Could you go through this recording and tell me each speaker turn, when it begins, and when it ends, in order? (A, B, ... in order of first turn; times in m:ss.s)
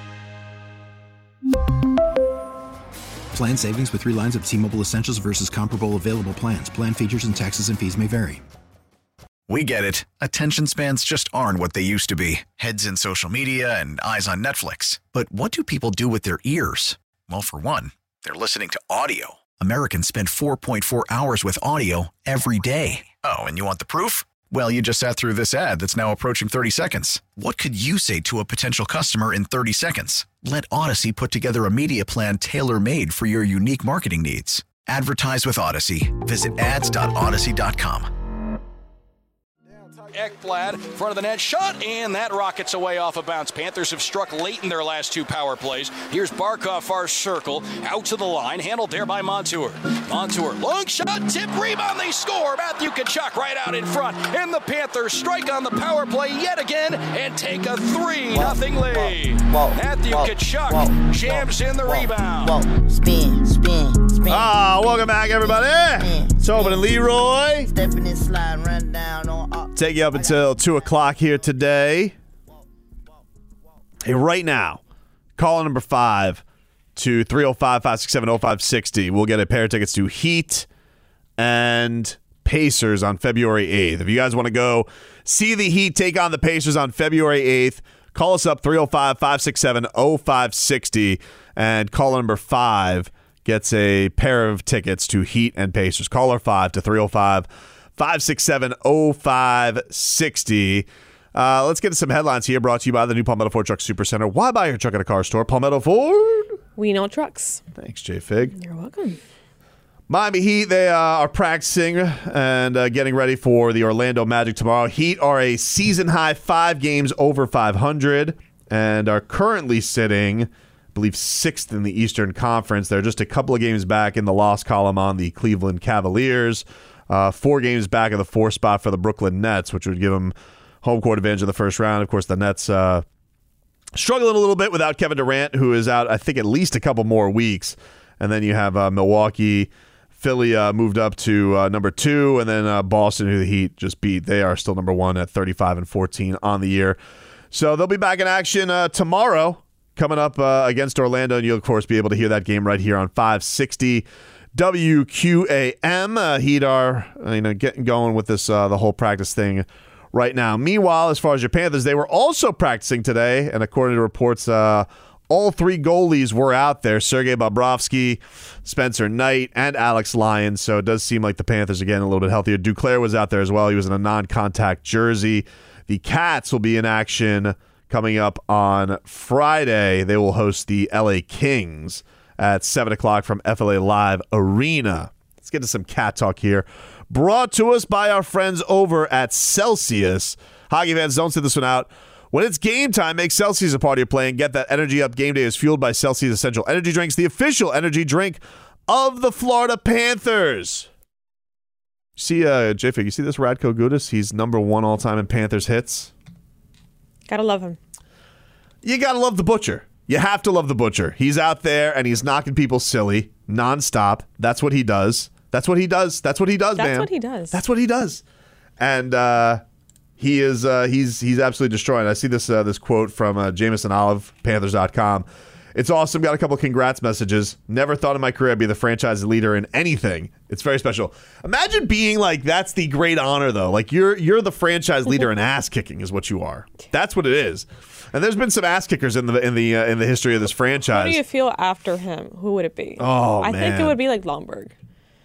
0:03.3-0:08.4 A
0:09.5-0:38.1 B
0:40.1-1:02.6 C
0:58.3-1:07.1 D
1:04.3-1:07.7 E
1:07.7-1:11.0 D
1:09.7-1:12.2 E
1:14.0-1:14.8 E
1:15.4-1:16.4 E
1:17.0-1:20.7 E
1:21.4-1:46.6 E
1:46.8-1:47.6 F
1:47.8-1:48.6 E
1:48.6-1:49.2 F
1:50.1-2:13.0 E
2:14.0-2:27.0 E
2:27.5-3:20.9 E
3:22.2-3:26.1 E
3:27.3-3:27.8 F
3:28.8-3:38.2 E
3:36.8-3:37.6 F
3:38.8-3:39.6 E
3:40.2-4:01.2 E
4:00.8-4:04.7 F
4:03.0-4:04.0 E